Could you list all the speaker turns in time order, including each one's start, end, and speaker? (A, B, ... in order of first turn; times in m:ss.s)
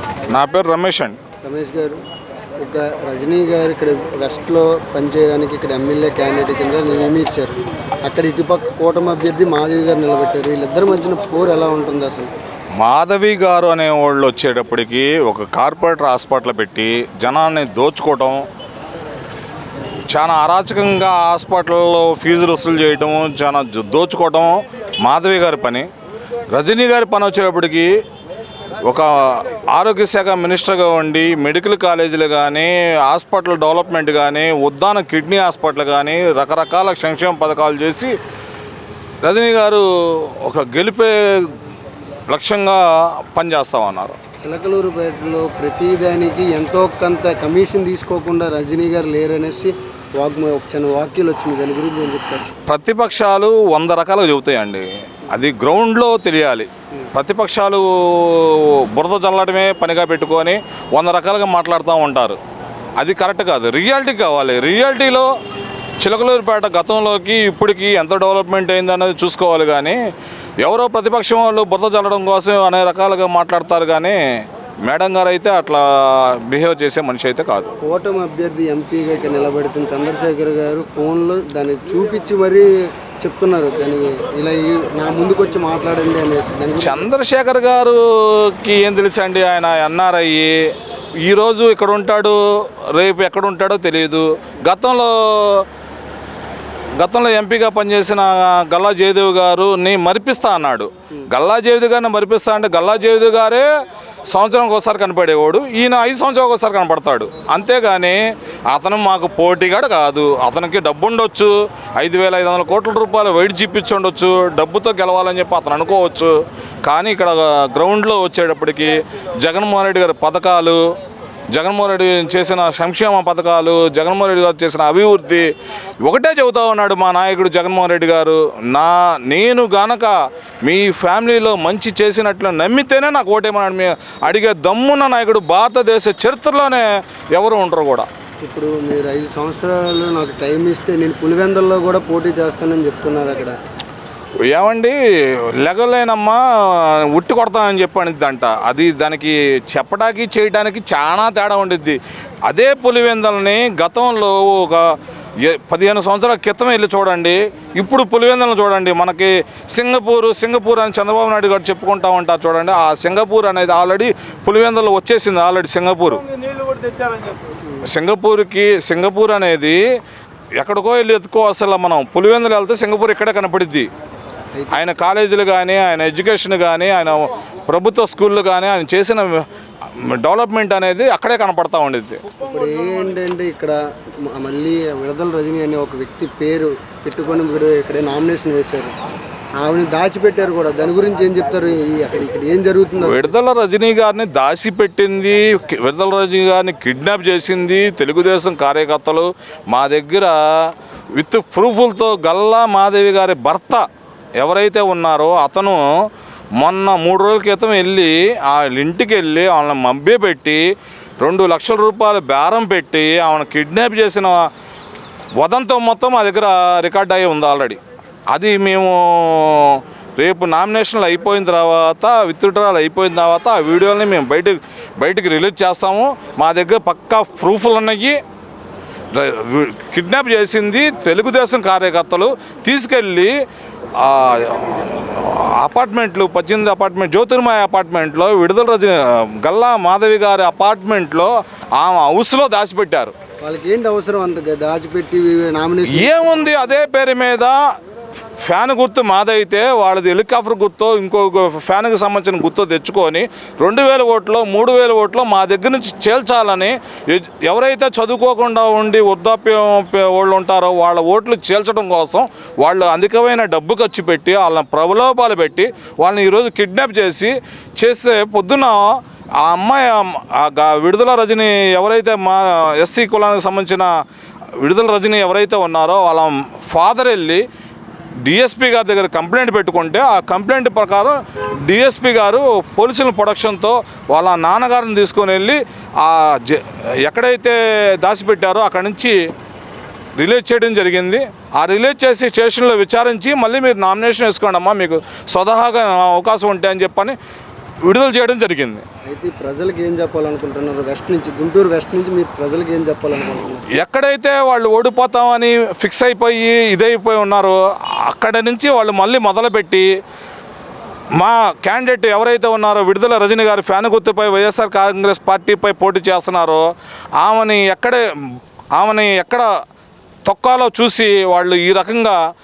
0:00.3-0:01.2 A
0:01.4-0:02.0 B
0:02.6-0:12.3 B
0:12.8-0:18.4 A
0:20.1-0:25.9 A
0:26.5-0:27.9 A
0:28.8-0:38.1 A
0:39.2-0:41.5 A
0:42.3-0:44.2 A
0:44.4-0:52.5 B
0:52.7-1:02.4 A
1:03.0-1:05.3 A
1:06.0-1:10.0 A
1:10.6-1:14.2 A
1:14.9-1:17.7 A
1:17.8-1:22.7 B
1:23.2-1:27.1 B
1:26.8-1:30.5 A
1:31.2-1:35.7 A
1:37.0-1:43.7 A
1:44.3-1:56.3 A
1:56.8-2:00.8 A
2:01.5-2:05.5 A
2:06.0-2:10.1 A
2:10.7-2:18.1 A
2:18.4-2:23.6 B
2:24.5-2:25.0 A
2:25.6-2:34.9 A
2:35.4-2:46.2 A
2:47.8-2:49.8 A
2:50.6-2:53.9 A
2:54.6-2:54.8 B
2:54.7-2:59.4 A
3:00.0-3:02.2 A
3:02.4-3:08.9 B
3:09.6-3:13.3 B
3:13.0-3:23.8 A
3:24.4-3:25.8 A
3:26.6-3:30.6 A
3:31.2-3:34.4 A
3:35.4-3:37.8 A
3:38.3-3:48.2 A
3:49.1-3:53.3 A
3:54.0-4:03.1 A
4:03.4-4:06.2 B
4:05.9-4:07.6 A
4:08.4-4:33.9 A
4:34.6-4:37.4 A
4:38.2-4:41.1 A
4:41.7-4:49.2 A
4:50.2-4:57.2 A
4:57.8-4:58.8 A
4:59.0-5:03.6 B
5:03.8-5:09.9 A
5:11.2-5:16.6 A
5:17.2-5:18.0 A
5:18.8-5:19.5 A
5:20.3-5:22.2 A